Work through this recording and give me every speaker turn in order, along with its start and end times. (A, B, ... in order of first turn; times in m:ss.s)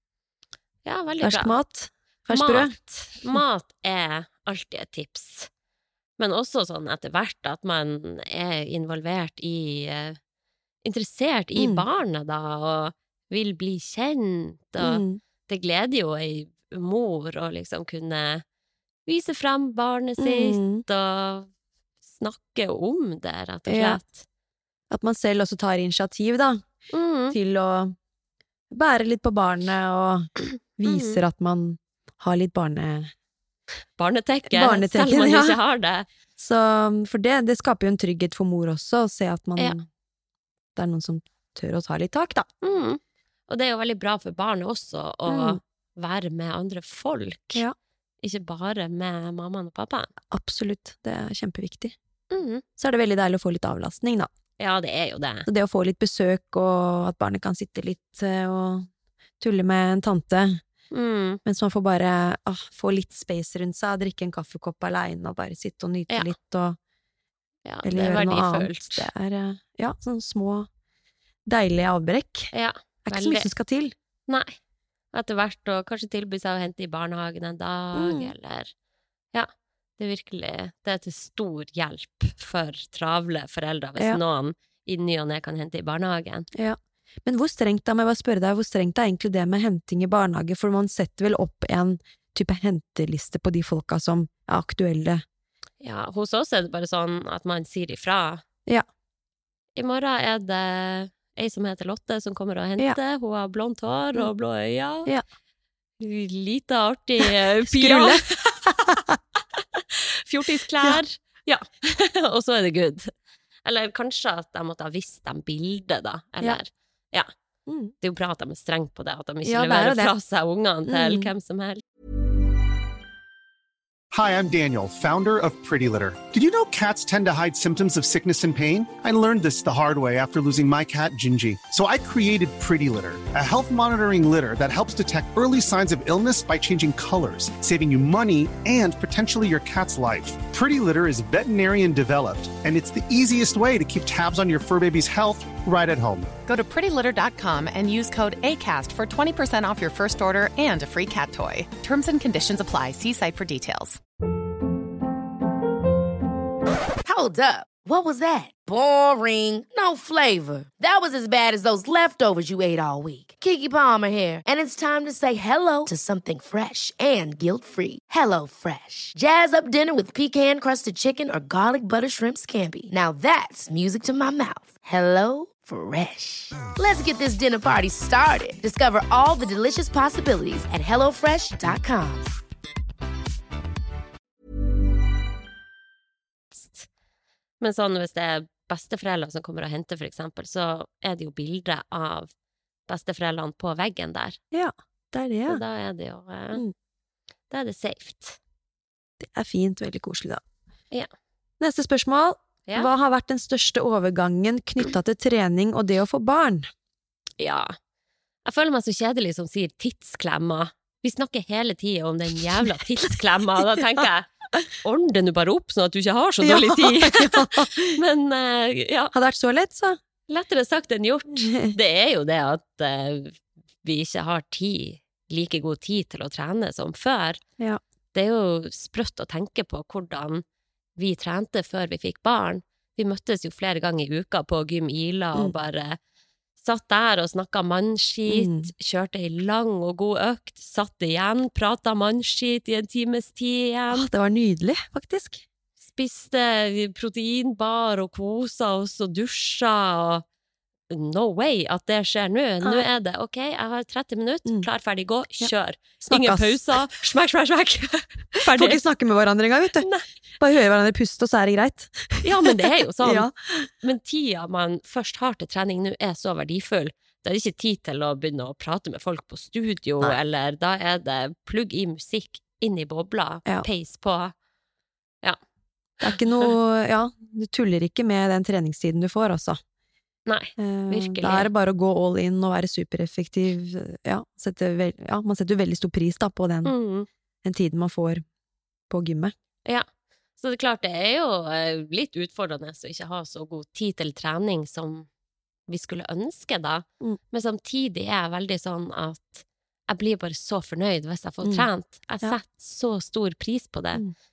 0:00.8-0:01.6 A
0:01.2-0:03.4 B
0:02.3-0:05.5 A
0:06.2-0:10.2 A
0:10.8-0:18.4 A
0:11.6-0:11.8 B
0:14.8-0:15.2 B
0:19.1-0:21.5 A
0:20.2-0:20.8 B
0:22.1-0:24.2 A
0:23.7-0:24.0 B
0:24.9-0:26.7 B
0:26.9-0:27.4 A
0:27.3-0:28.0 B
0:28.7-0:33.1 B
0:30.9-0:31.2 A
0:34.0-0:36.1 A
0:34.5-0:35.6 B
0:36.4-0:39.9 B
0:40.8-0:42.5 B
0:42.6-0:47.6 A
0:45.3-0:45.6 B
0:48.2-0:50.1 A
0:50.3-0:52.0 B
0:52.3-0:52.6 A
0:52.8-0:54.3 B
0:54.6-0:55.5 A
0:55.5-0:58.9 B
0:59.4-1:00.6 B
1:00.9-1:01.4 A
1:01.4-1:06.8 B
1:07.6-1:09.1 A
1:07.8-1:10.7 B
1:11.5-1:12.5 B
1:12.5-1:13.5 A
1:13.0-1:13.9 B
1:14.3-1:14.6 A
1:15.1-1:18.7 A
1:17.9-1:18.3 B
1:19.3-1:26.5 A
1:26.5-1:35.2 B
1:35.8-1:38.4 A
1:39.8-1:45.1 A
1:46.0-1:48.5 A
1:47.6-1:49.2 B
1:49.8-1:53.1 A
1:53.6-1:57.3 A
1:57.7-1:57.9 B
1:58.0-2:01.8 A
1:59.4-2:00.1 B
2:00.9-2:01.3 B
2:04.1-2:26.3 C
2:26.4-2:34.0 D
2:37.0-3:02.3 E
3:06.5-3:06.9 A
3:07.6-3:12.3 A
3:12.9-3:14.4 A
3:14.5-3:15.6 B
3:15.5-3:16.6 A
3:17.5-3:18.4 A
3:19.2-3:20.4 B
3:21.6-3:26.7 B
3:27.4-3:27.8 A
3:28.5-3:34.3 A
3:34.8-3:39.1 A
3:36.4-3:38.0 B
3:39.1-3:40.0 B
3:40.3-3:47.4 A
3:41.3-3:41.8 B
3:48.1-3:50.4 A
3:51.0-3:56.0 A
3:56.6-4:04.1 A
3:58.3-3:58.7 B
4:03.9-4:05.5 B
4:05.9-4:10.2 A
4:10.9-4:18.8 A
4:15.4-4:16.8 B
4:18.4-4:19.9 B
4:19.8-4:20.1 A
4:20.4-4:23.7 B
4:22.2-4:23.3 A
4:23.8-4:34.3 A
4:36.0-4:39.6 B
4:40.3-4:41.5 A
4:40.6-4:46.7 B
4:46.6-4:47.1 A
4:47.4-4:48.2 B
4:48.9-4:49.3 B
4:50.4-4:55.1 A
4:55.7-5:04.0 A